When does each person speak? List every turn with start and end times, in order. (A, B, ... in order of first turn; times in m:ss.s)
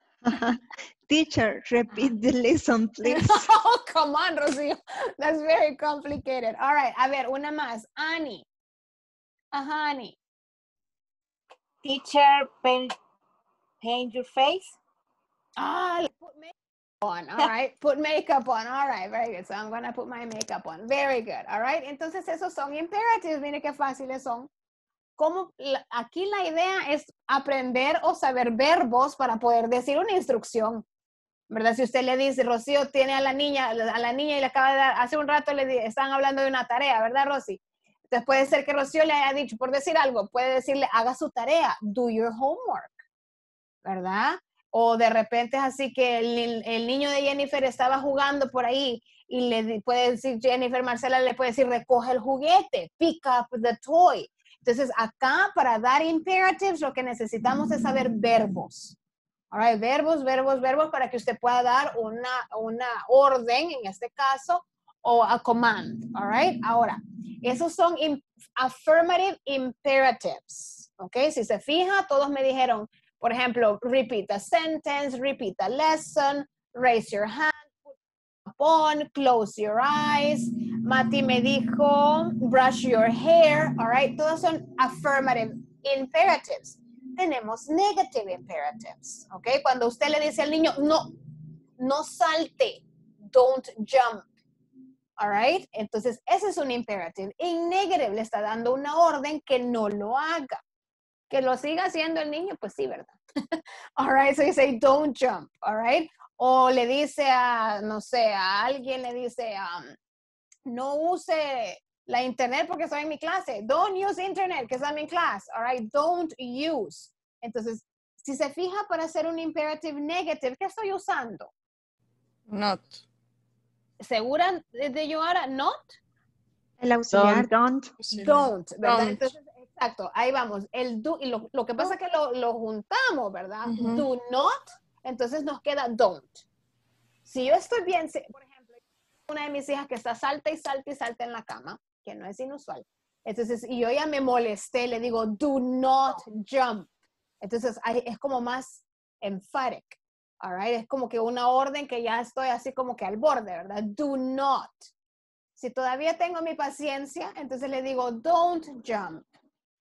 0:00.2-0:03.5 A
0:03.0-0:08.4 B
0:09.5-0:10.2 B
0:11.8-0:12.9 C
0:13.8-0:14.8 C
0:15.6-0:24.5 B
0:25.2-0:30.8 B
0:31.5-0:42.9 B
0:43.8-0:59.0 B
0:59.5-1:17.9 B
1:18.5-1:31.1 B
1:31.8-1:34.2 B
1:35.2-1:40.6 B
1:41.3-1:43.2 B
1:44.0-1:49.9 B
1:50.7-2:01.5 B
2:02.5-2:03.0 D
2:04.0-2:05.9 B
2:06.8-2:07.9 A
2:07.1-2:07.5 D
2:08.0-2:09.3 D
2:08.2-2:16.4 B
2:13.6-2:14.0 D
2:17.2-2:18.7 B
2:19.3-2:26.9 B
2:27.4-2:34.9 B
2:35.6-2:39.2 B